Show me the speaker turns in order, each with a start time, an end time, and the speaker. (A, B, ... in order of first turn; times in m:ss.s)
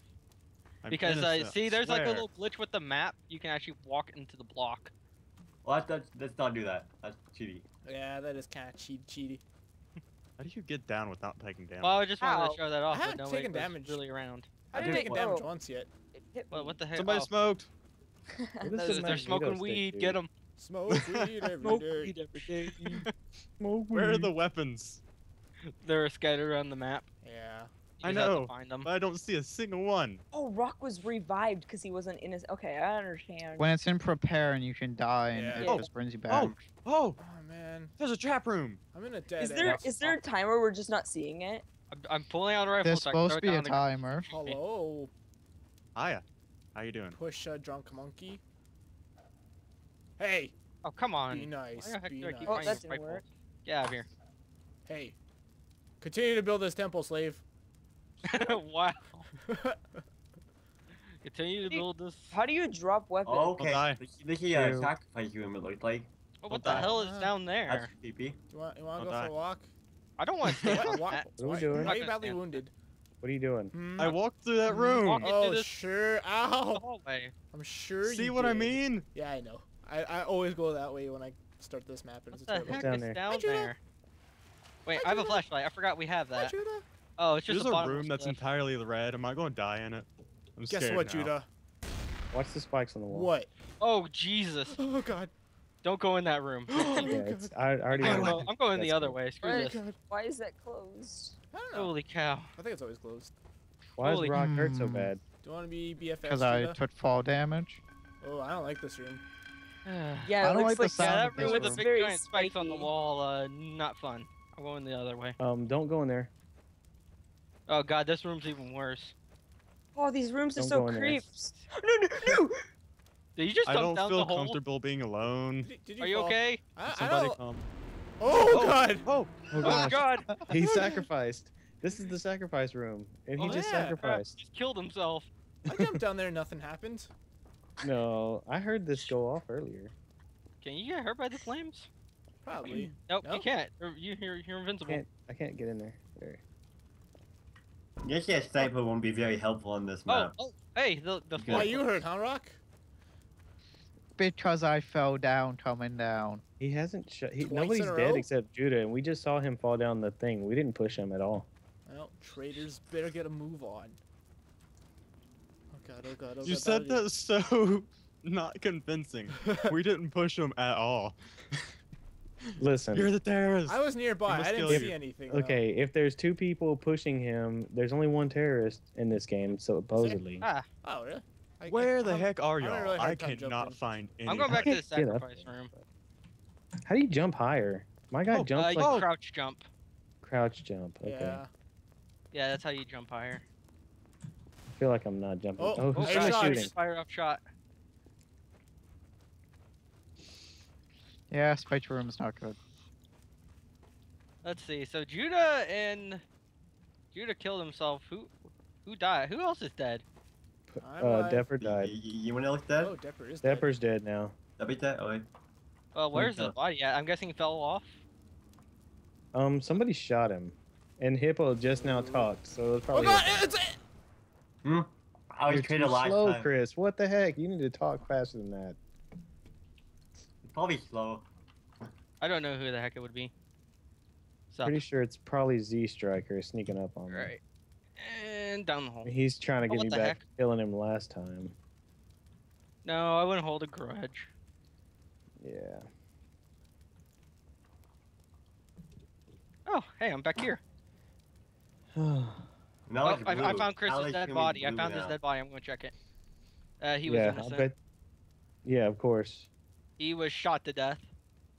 0:00.8-0:02.3 A
0:00.9-0:04.9 B
0:05.6-0:07.6 C
0:07.8-0:09.4 D
0:10.4-0:11.9 E
0:11.8-0:14.5 B
0:12.2-0:12.6 F
0:12.9-0:14.0 D
0:14.7-0:15.9 D
0:14.7-0:15.5 F
0:14.8-0:15.4 C
0:16.1-0:16.8 F
0:16.5-0:17.3 B
0:17.0-0:17.6 A
0:18.4-0:19.2 F
0:18.6-0:20.2 G
0:18.8-0:20.3 B
0:20.6-0:22.2 D
0:21.6-0:23.0 B
0:22.4-0:23.0 G
0:23.6-0:24.3 G
0:23.9-0:25.0 A
0:24.4-0:25.0 E
0:25.8-0:27.1 B
0:27.2-0:27.7 D
0:28.0-0:28.9 B
0:28.0-0:28.5 A
0:28.8-0:30.2 E
0:30.3-0:33.7 F
0:33.6-0:37.1 A
0:35.3-0:35.8 D
0:35.6-0:35.9 F
0:36.3-0:36.5 C
0:36.8-0:37.1 E
0:37.2-0:38.0 D
0:38.0-0:38.8 E
0:38.9-0:40.1 D
0:39.4-0:41.6 F
0:41.9-0:44.6 B
0:42.8-0:44.3 A
0:44.3-0:45.1 D
0:45.9-0:46.2 E
0:46.7-0:47.1 E
0:47.1-0:48.4 D
0:50.2-0:50.5 D
0:50.8-0:54.1 B
0:51.3-0:52.8 D
0:52.4-0:53.2 F
0:54.8-0:55.2 D
0:56.0-0:57.4 D
0:58.2-0:59.3 B
0:59.5-1:00.0 D
1:01.2-1:02.4 B
1:01.6-1:03.6 F
1:03.2-1:07.0 C
1:03.6-1:04.0 A
1:04.5-1:04.9 G
1:06.4-1:07.9 B
1:06.6-1:06.9 A
1:06.7-1:07.4 D
1:07.6-1:08.4 C
1:08.5-1:09.7 D
1:09.0-1:09.3 A
1:10.2-1:12.6 B
1:10.4-1:12.7 D
1:11.4-1:12.0 G
1:13.2-1:13.7 G
1:13.7-1:14.2 D
1:14.0-1:15.3 A
1:14.2-1:14.6 E
1:14.7-1:15.8 B
1:14.7-1:16.8 D
1:16.7-1:17.3 B
1:17.5-1:23.7 D
1:18.0-1:19.0 A
1:22.3-1:23.8 B
1:22.7-1:23.2 G
1:24.8-1:26.5 B
1:24.9-1:25.4 D
1:26.3-1:26.8 D
1:27.2-1:28.4 B
1:27.5-1:28.5 A
1:28.5-1:31.2 E
1:30.7-1:31.5 D
1:32.3-1:33.3 G
1:33.1-1:33.5 D
1:33.8-1:34.8 B
1:34.7-1:35.3 D
1:35.8-1:37.1 B
1:36.7-1:37.5 D
1:37.1-1:39.2 G
1:37.9-1:39.8 B
1:38.0-1:38.4 D
1:39.4-1:41.4 F
1:39.5-1:40.0 D
1:41.5-1:41.9 D
1:41.7-1:42.5 B
1:42.6-1:43.3 D
1:44.0-1:45.2 G
1:44.0-1:44.4 B
1:44.3-1:45.0 A
1:45.4-1:46.8 D
1:46.2-1:47.8 A
1:48.2-1:49.2 D
1:49.8-1:55.4 B
1:50.2-1:52.9 F
1:50.4-1:51.8 A
1:55.4-1:56.3 G
1:57.7-1:59.1 B
1:59.9-2:02.6 F
2:00.6-2:01.3 G
2:03.4-2:04.6 B
2:03.6-2:04.6 A
2:04.6-2:05.7 E
2:05.6-2:07.4 D
2:06.0-2:06.7 B
2:06.8-2:07.6 A
2:07.2-2:07.5 E
2:08.2-2:09.1 D
2:08.5-2:08.8 B
2:08.5-2:10.0 A
2:09.5-2:09.8 C
2:09.5-2:14.4 G
2:09.6-2:10.3 B
2:13.4-2:14.0 D
2:13.4-2:15.3 B
2:15.7-2:17.1 D
2:17.8-2:19.9 G
2:20.6-2:21.9 B
2:22.4-2:23.5 D
2:23.0-2:25.0 B
2:24.8-2:26.4 G
2:28.0-2:30.3 C
2:30.1-2:31.9 B
2:31.4-2:31.7 C
2:31.5-2:32.6 D
2:34.2-2:36.4 A
2:36.6-2:41.5 G
2:37.4-2:38.3 D
2:41.8-2:44.0 D
2:45.7-2:47.1 D
2:46.4-2:47.9 A
2:46.7-2:47.4 E
2:48.2-2:51.1 E
2:49.3-2:49.7 D
2:52.6-2:53.1 G
2:52.9-2:53.7 A
2:53.1-2:53.6 E
2:53.7-2:55.6 D
2:54.2-2:54.9 A
2:54.6-3:00.4 G
3:00.4-3:00.7 B
3:00.8-3:03.9 D
3:01.7-3:04.7 A
3:03.2-3:03.7 E
3:04.2-3:05.7 B
3:04.4-3:05.8 G
3:06.8-3:09.0 G
3:08.3-3:09.1 A
3:08.6-3:09.7 B
3:10.2-3:11.4 G
3:11.0-3:11.5 D
3:12.3-3:13.4 B
3:14.7-3:16.7 G
3:15.6-3:16.7 D
3:15.9-3:17.4 B
3:21.3-3:22.6 A
3:24.4-3:26.2 B
3:27.1-3:28.3 B
3:28.8-3:30.0 B
3:30.7-3:31.9 G
3:30.8-3:31.5 D
3:31.6-3:32.9 C
3:32.8-3:33.7 D
3:33.4-3:34.3 G
3:34.6-3:35.3 C
3:35.9-3:37.9 B
3:36.1-3:36.5 C
3:39.3-3:43.4 G
3:41.7-3:42.3 D
3:42.9-3:43.8 D
3:44.6-3:46.5 C
3:45.5-3:48.8 G
3:50.4-3:51.3 C
3:52.2-3:53.3 B
3:54.5-3:54.8 B
3:54.6-3:57.3 G
3:57.1-3:57.4 B
3:58.0-3:59.1 B
3:59.0-4:01.5 G
3:59.6-4:00.2 B
4:02.8-4:04.3 B
4:05.4-4:05.9 G
4:09.6-4:10.6 B
4:12.0-4:12.5 G
4:12.9-4:15.2 C
4:13.0-4:15.9 B
4:16.8-4:17.7 B
4:17.0-4:17.8 G
4:18.6-4:19.5 G
4:20.0-4:21.1 B